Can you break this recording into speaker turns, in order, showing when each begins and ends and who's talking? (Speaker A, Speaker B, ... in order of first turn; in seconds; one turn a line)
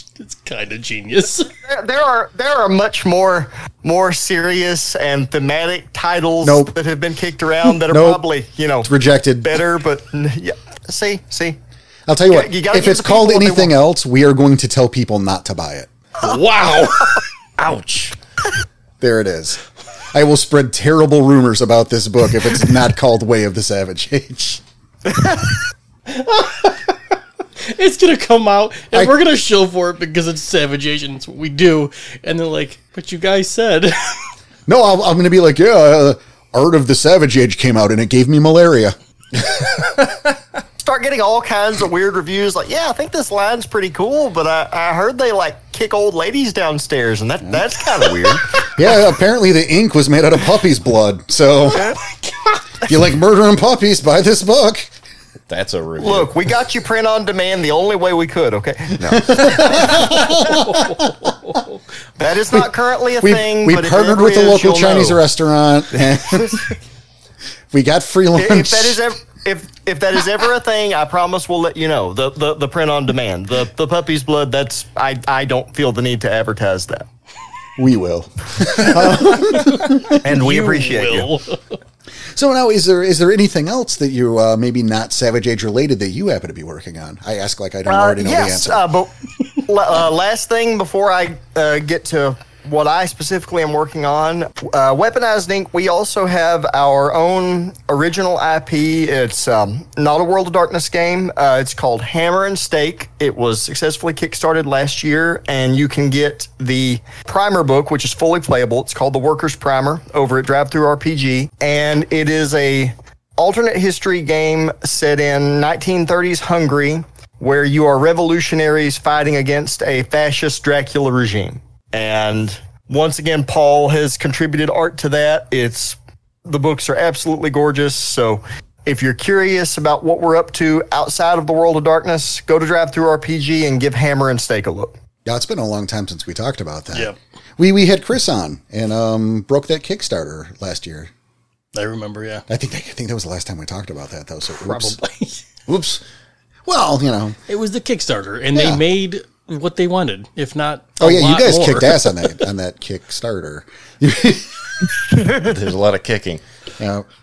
Speaker A: 0.2-1.5
Speaker B: 1.7-8.9
Speaker C: 6.4-6.8
Speaker C: 7.9-8.2
Speaker C: 8.8-9.6
Speaker B: 9.4-11.6
Speaker C: 12.1-15.9
Speaker B: 12.3-13.7
Speaker D: 16.2-18.2
Speaker C: 19.0-19.6
Speaker C: 20.1-24.6
Speaker A: 26.1-26.9
Speaker A: 27.6-34.3
Speaker C: 28.9-29.2
Speaker C: 34.7-39.0
Speaker B: 40.8-48.7
Speaker C: 48.5-52.0
Speaker C: 52.8-54.9
Speaker D: 55.5-56.3
Speaker B: 56.0-60.0
Speaker C: 59.0-61.3
Speaker A: 59.9-61.8
Speaker B: 62.2-65.2
Speaker C: 63.2-66.7
Speaker C: 67.7-69.0
Speaker B: 68.3-77.1
Speaker C: 77.8-80.2
Speaker A: 79.5-81.8
Speaker B: 80.2-81.3
Speaker C: 82.3-88.8
Speaker B: 87.9-134.9
Speaker C: 135.2-141.1
Speaker A: 141.7-142.4
Speaker C: 142.5-145.0
Speaker A: 144.6-145.4
Speaker D: 145.7-146.0
Speaker C: 146.7-147.4
Speaker A: 147.5-152.4
Speaker C: 148.5-148.8
Speaker C: 151.0-155.0
Speaker D: 155.2-156.4
Speaker C: 156.8-157.1